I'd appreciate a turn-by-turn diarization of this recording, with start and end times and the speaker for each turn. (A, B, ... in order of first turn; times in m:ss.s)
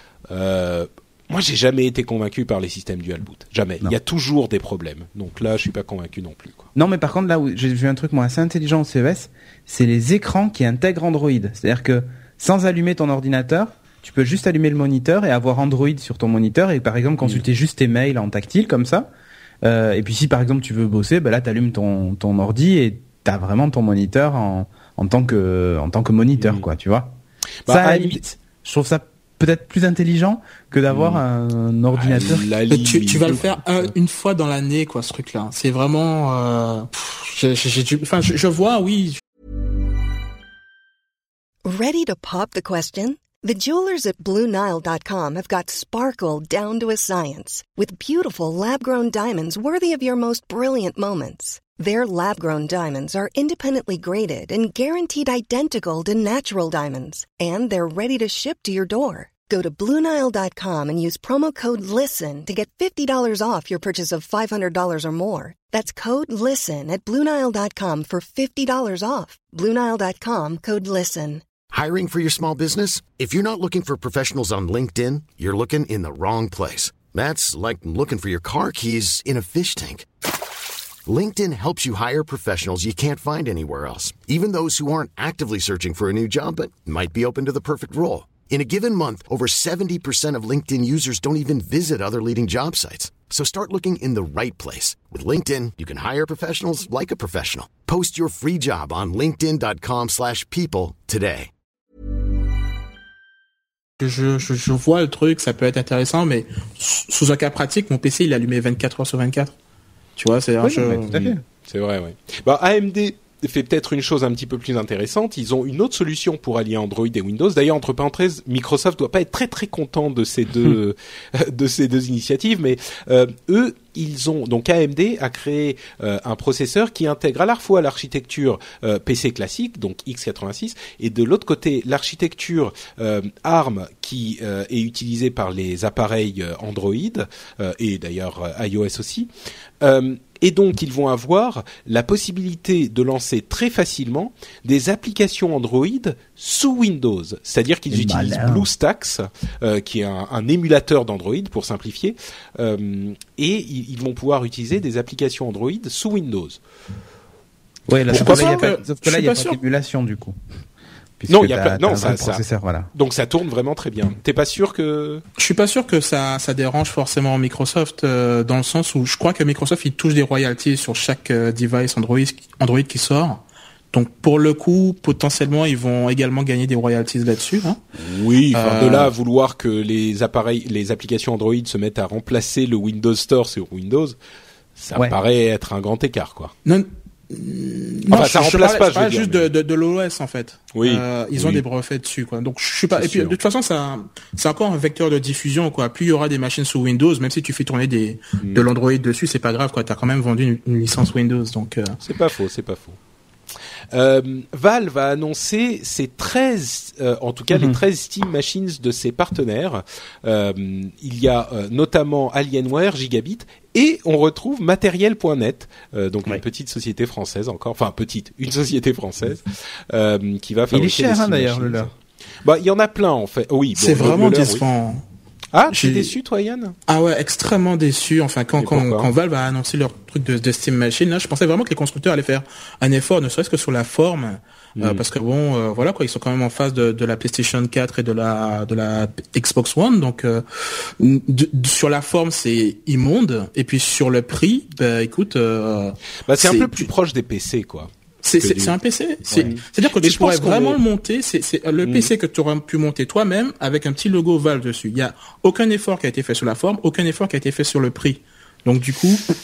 0:00.3-0:06.7 A
0:06.7-0:19.1 B
0:19.6-0:27.2 B
0:26.4-0:26.6 A
0:27.6-0:28.2 A
0:27.7-0:32.5 B
0:30.9-0:31.2 A
0:31.9-0:33.9 A
0:32.7-0:39.2 C
0:41.6-1:11.4 D
1:11.7-1:20.0 E
1:21.0-1:41.5 E
1:44.0-1:49.5 C
1:50.2-1:51.2 C
1:50.6-1:51.4 B
1:51.1-2:19.3 A
2:19.8-2:36.6 A
2:27.9-2:28.6 B
2:37.9-2:40.4 B
2:38.1-2:38.7 A
2:38.1-2:39.6 C
2:41.2-2:42.9 B
2:41.3-2:42.4 A
2:42.9-2:45.2 A
2:45.4-2:57.8 C
2:58.0-3:04.2 A
2:58.5-2:59.1 C
3:04.8-3:06.5 A
3:06.6-3:22.0 C
3:08.1-3:09.4 A
3:10.7-3:11.6 A
3:12.9-3:13.4 A
3:18.4-3:18.6 A
3:22.0-3:23.0 A
3:23.9-3:44.6 A
3:40.7-3:41.9 B
3:43.8-3:45.0 C
3:45.5-3:46.8 A
3:45.7-3:46.1 C
3:46.9-4:06.9 C
3:48.6-3:49.1 A
3:54.8-3:55.0 A
4:06.2-4:07.9 A
4:08.2-4:19.3 C
4:08.4-4:08.7 A
4:09.4-4:10.8 A
4:11.8-4:12.1 A